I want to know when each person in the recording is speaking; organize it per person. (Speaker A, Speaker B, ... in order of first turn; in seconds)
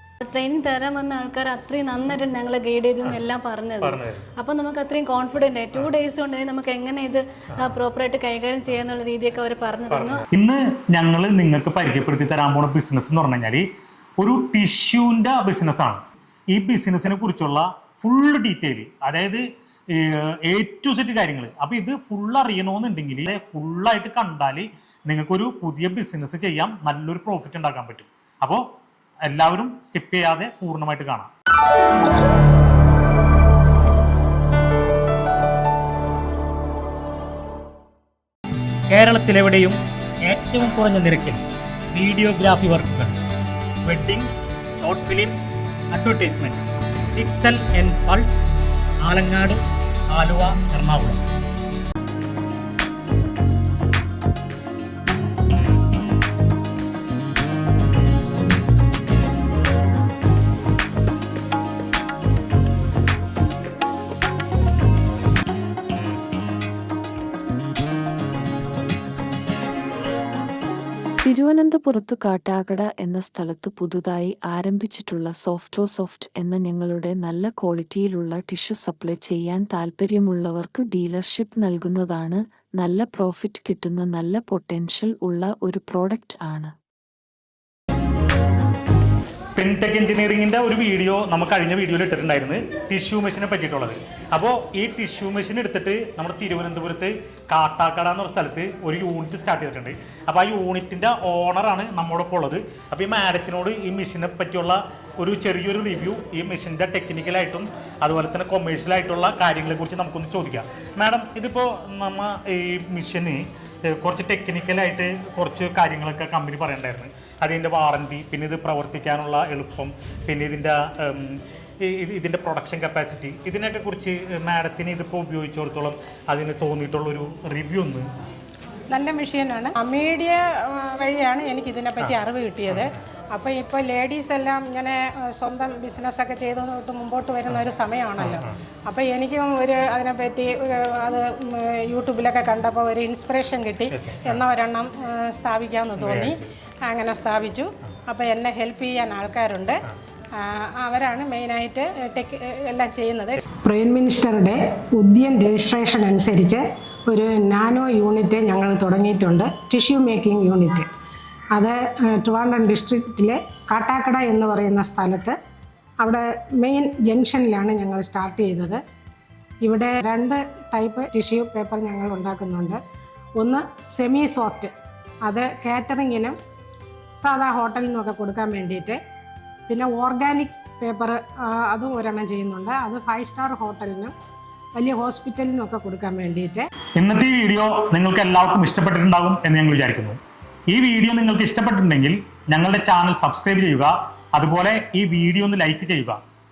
Speaker A: 0.3-10.2
Speaker B: 3.8-4.2, 9.9-13.6, 14.2-16.0, 16.5-28.6, 29.3-31.3, 38.9-41.4, 41.9-43.1, 43.9-44.3, 44.8-45.4, 45.9-46.6, 47.1-48.4, 49.0-49.6, 50.1-51.2, 89.6-128.1, 138.2-138.5, 143.9-144.4, 146.0-146.5, 187.0-190.2, 190.7-196.2
Speaker C: 71.2-86.7
Speaker D: 128.9-149.8, 150.4-160.9, 161.5-165.3, 166.0-168.8, 169.6-172.8, 173.4-174.7, 175.2-176.4, 177.2-179.0, 179.7-184.1, 184.8-186.7